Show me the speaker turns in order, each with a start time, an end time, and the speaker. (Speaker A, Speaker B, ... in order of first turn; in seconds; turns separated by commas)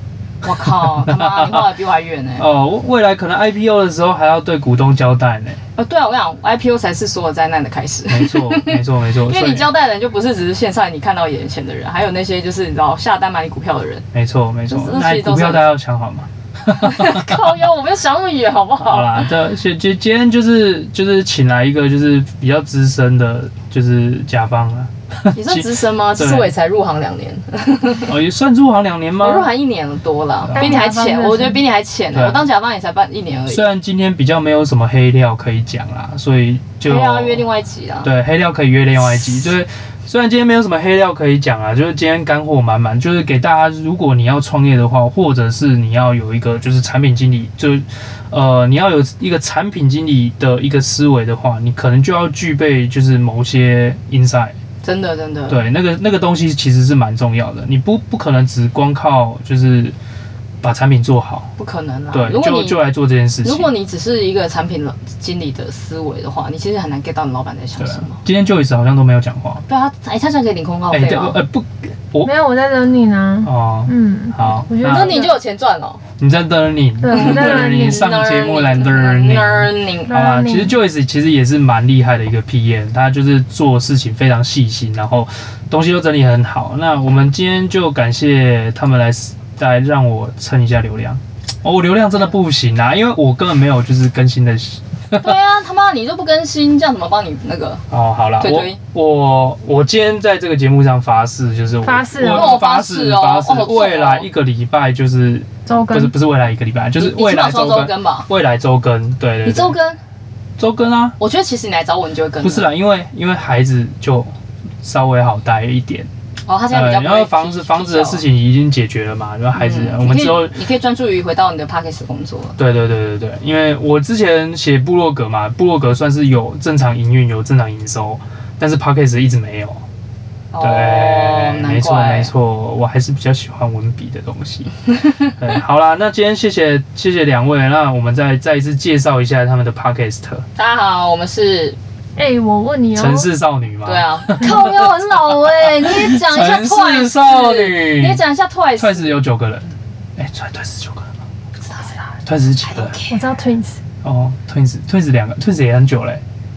Speaker A: 0.4-2.5, Speaker B: 1.1-1.7, Speaker B: 2.4-5.6, Speaker A: 5.8-14.1, Speaker B: 8.1-9.7, Speaker B: 14.1-17.4, Speaker A: 14.7-15.7, Speaker A: 16.7-19.3, Speaker B: 18.8-26.5, Speaker A: 25.3-28.2, Speaker B: 28.1-29.5, Speaker A: 29.2-33.7, Speaker B: 30.4-30.9, Speaker C: 30.6-31.6, Speaker B: 32.1-32.5, Speaker B: 33.5-37.5, Speaker A: 36.8-38.1, Speaker B: 38.0-54.5, Speaker A: 54.8-55.6, Speaker B: 55.5-60.0, Speaker B: 60.6-61.5, Speaker A: 61.6-62.9, Speaker B: 62.1-63.7, Speaker A: 63.4-68.2, Speaker B: 67.8-69.6, Speaker A: 69.7-71.4, Speaker B: 70.9-72.4, Speaker C: 72.2-75.4, Speaker B: 73.4-75.2, Speaker A: 74.8-76.0, Speaker B: 76.2-95.3, Speaker C: 77.0-78.0, Speaker A: 77.1-80.2, Speaker C: 80.1-80.8, Speaker A: 95.2-97.8, Speaker B: 97.9-109.8, Speaker A: 98.4-98.8, Speaker C: 101.8-102.6, Speaker A: 102.2-104.3, Speaker C: 105.7-106.1, Speaker A: 107.0-108.3, Speaker A: 109.4-110.0, Speaker B: 110.6-111.2, Speaker A: 111.2-112.7, Speaker B: 112.4-116.1, Speaker A: 116.5-118.2, Speaker B: 116.7-120.6, Speaker A: 119.5-122.6, Speaker B: 122.6-129.8, Speaker A: 130.5-132.3, Speaker B: 130.6-140.4, Speaker A: 140.6-141.8, Speaker C: 142.2-143.3, Speaker B: 142.9-144.9, Speaker A: 143.8-149.2, Speaker B: 145.8-148.2, Speaker B: 148.8-151.1, Speaker A: 151.7-152.0, Speaker B: 152.2-153.0, Speaker A: 152.6-153.3, Speaker C: 153.1-153.8, Speaker B: 154.0-156.2